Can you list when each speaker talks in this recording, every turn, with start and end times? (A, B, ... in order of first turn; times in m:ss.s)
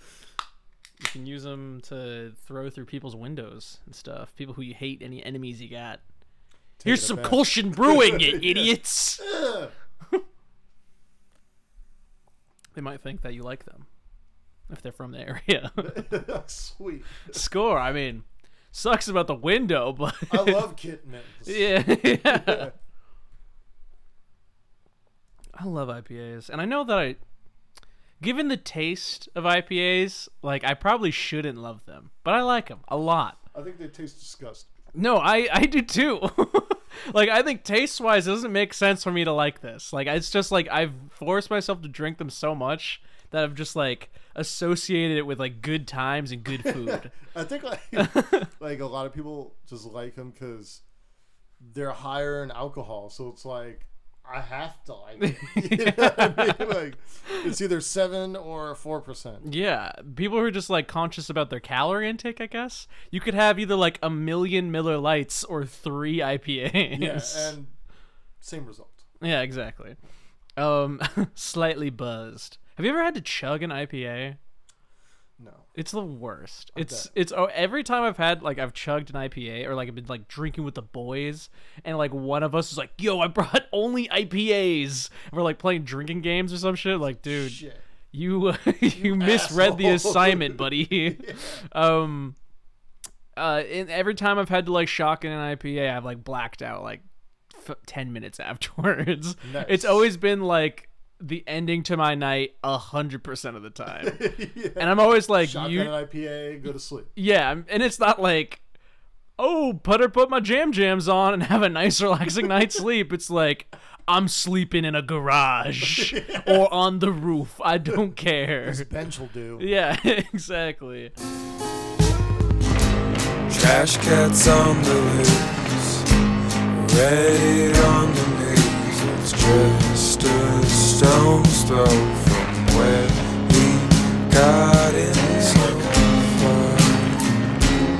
0:01.0-0:06.0 A
0:06.8-0:09.7 B
0:06.8-0:09.3 A
0:12.7-0:13.9 A
0:14.7-0:16.1 A
0:15.8-0:17.4 B
0:17.2-0:20.7 A
0:20.3-0:22.7 B
0:21.4-0:22.7 A
0:25.5-0:27.2 A
0:28.2-0:33.4 A
0:33.5-0:34.7 B
0:34.9-0:47.1 A
0:46.6-0:50.8 B
0:48.0-0:48.5 A
0:51.6-0:59.4 B
0:55.2-0:57.5 A
0:59.4-1:07.6 A
1:06.9-1:07.7 B
1:08.4-1:09.0 B
1:09.2-1:10.0 A
1:10.6-1:14.4 A
1:15.4-1:15.7 B
1:15.7-1:27.6 A
1:16.8-1:17.1 B
1:27.2-1:27.8 B
1:28.1-1:32.4 A
1:28.9-1:31.6 B
1:33.4-1:44.2 A
1:39.4-1:40.1 B
1:43.9-1:47.1 B
1:44.8-1:46.0 A
1:47.2-1:48.6 A
1:49.4-1:58.9 A
1:55.8-1:56.6 B
1:58.6-1:59.7 B
1:59.6-2:01.1 A
2:03.5-2:06.1 C
2:06.7-2:17.2 C